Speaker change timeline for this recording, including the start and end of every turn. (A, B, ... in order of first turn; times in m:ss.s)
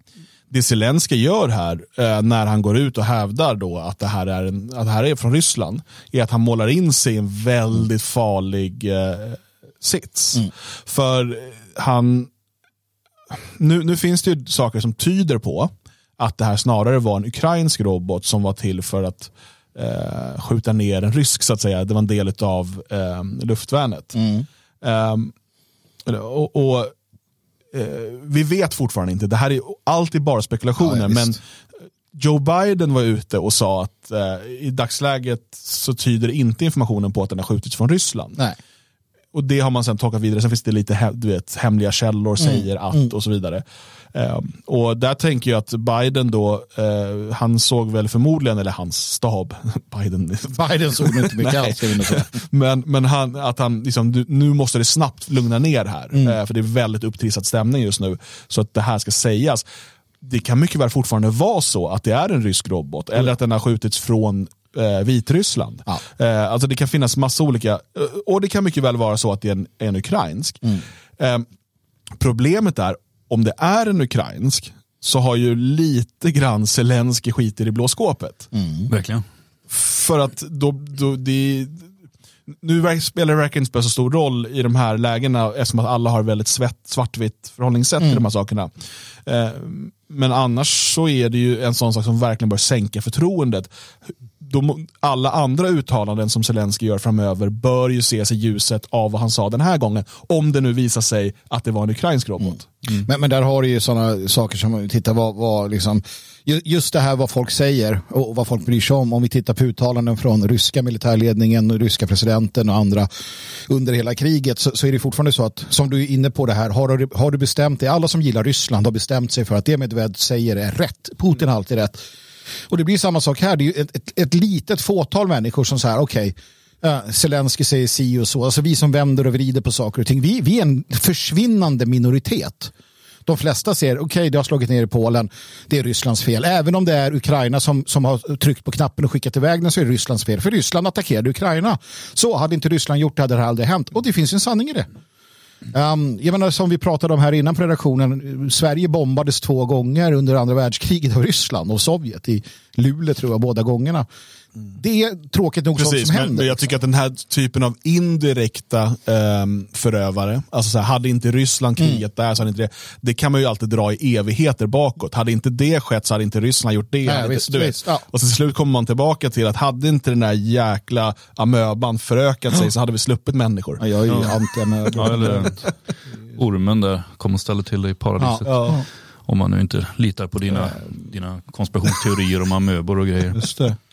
0:00.5-0:12.3 A
0:13.6-0:24.2 A
0:24.2-0:24.4 B
0:24.8-0:25.3 A
0:26.1-0:26.9 A
0:27.7-0:31.4 A
0:30.8-0:31.4 B
0:32.1-0:38.4 A
0:39.3-0:59.6 A
0:42.4-0:43.0 B
0:50.5-0:52.4 B
1:00.2-1:11.5 A
1:12.2-1:18.5 A
1:18.5-1:18.9 B
1:18.9-1:19.2 C
1:19.7-1:21.9 A
1:22.6-1:28.7 A
1:29.2-1:33.7 A
1:34.4-1:42.7 A
1:42.9-1:53.1 B
1:53.7-2:02.0 B
2:02.7-2:12.7 B
2:13.3-2:24.9 B
2:25.7-2:34.1 B
2:34.7-2:36.7 B
2:35.8-2:53.8 A
2:47.0-2:48.0 B
2:53.8-2:55.5 B
2:54.1-2:54.4 C
2:54.9-2:55.7 C
2:56.3-3:03.5 C
2:58.5-2:58.8 A